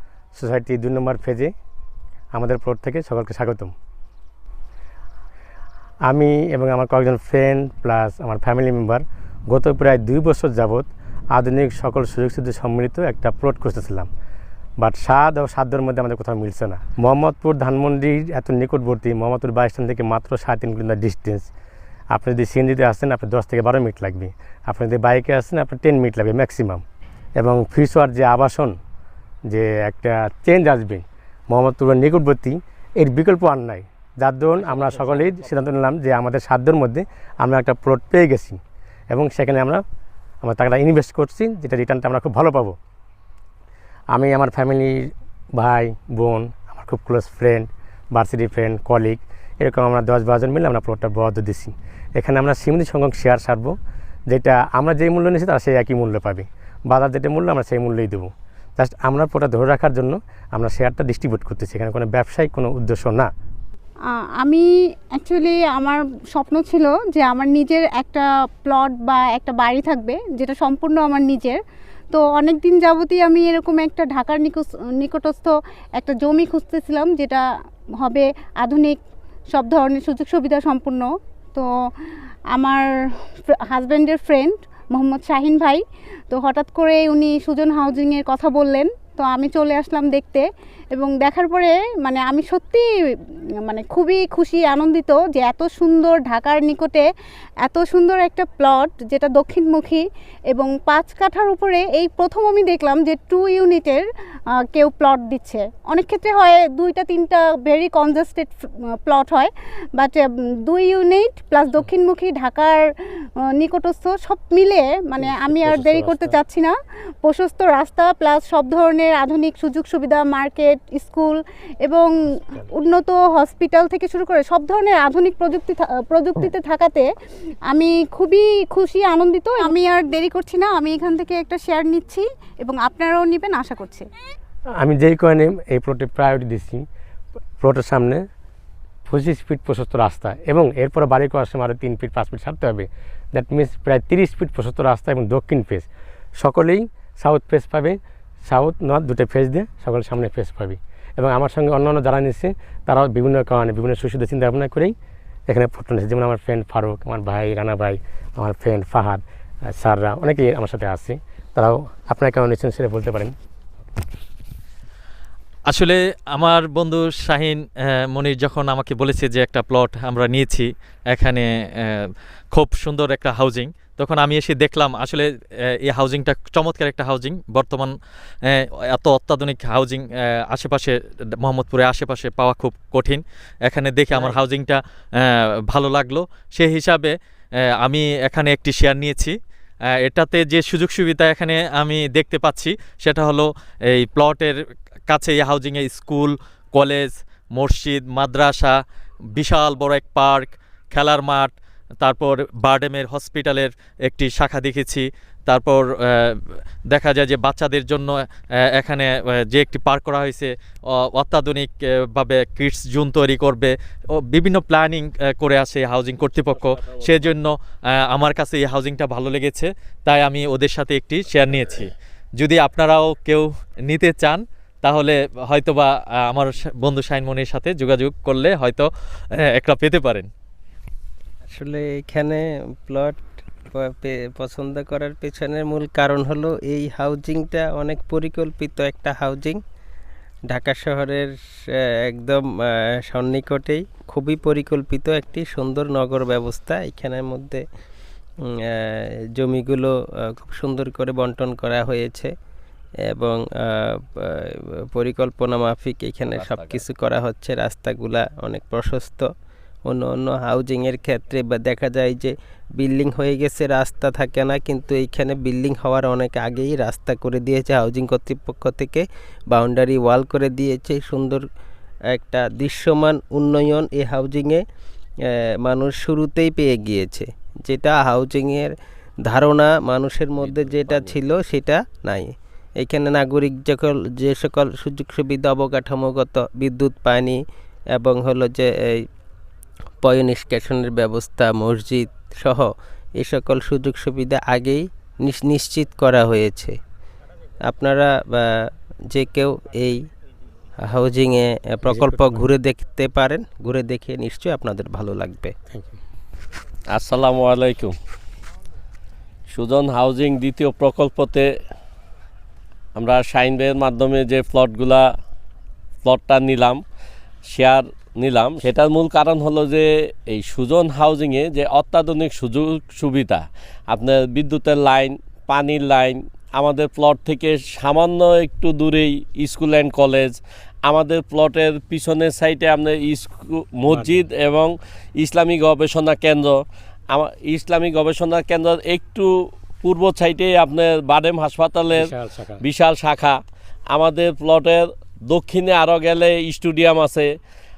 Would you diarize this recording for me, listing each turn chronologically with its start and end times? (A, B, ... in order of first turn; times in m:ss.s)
0:00.4-0:01.5 A
0:02.3-0:03.7 A
0:06.1-0:14.1 A
0:14.8-0:21.5 A
0:22.1-0:26.8 A
0:27.4-0:28.8 A
0:29.5-0:39.8 A
0:40.4-0:42.8 A
0:44.1-0:53.8 A
0:54.3-1:03.3 A
1:04.4-1:11.6 B
1:12.1-1:17.4 B
1:18.0-1:19.0 B
1:19.5-1:21.7 B
1:22.5-1:22.9 B
1:23.5-1:32.9 B
1:33.7-1:37.1 B
1:37.6-1:44.1 B
1:44.7-2:02.1 B
1:55.2-1:56.4 A
2:02.6-2:07.1 B
2:07.7-2:14.1 B
2:14.8-2:16.8 A
2:17.6-2:18.2 A
2:19.1-2:25.9 A
2:26.4-2:34.9 A
2:35.5-2:43.3 A
2:45.7-2:55.3 C
2:55.8-2:57.9 C
2:58.5-3:07.1 C
3:07.8-3:09.3 C
3:10.0-3:14.6 C
3:15.1-3:18.8 C
3:19.4-3:28.1 C
3:28.8-3:30.5 C
3:31.1-3:48.9 C
3:49.6-3:50.3 C
3:51.5-3:59.6 D
4:00.5-4:07.6 D
4:08.4-4:12.3 D
4:13.1-4:19.3 D
4:16.3-4:16.8 E
4:19.9-4:31.5 D
4:32.1-4:34.6 D
4:35.3-4:38.7 D
4:39.2-4:47.4 D
4:40.4-4:41.2 E
4:47.9-4:49.0 D
4:50.0-4:56.8 D
4:57.7-5:00.0 D
5:00.8-5:05.6 D
5:01.8-5:02.5 A
5:05.7-5:06.0 A
5:06.9-5:08.0 E
5:09.5-5:11.5 E
5:13.0-5:15.1 E
5:16.0-5:16.8 E
5:17.5-5:47.3 E
5:33.9-5:34.2 A
5:41.9-5:42.6 A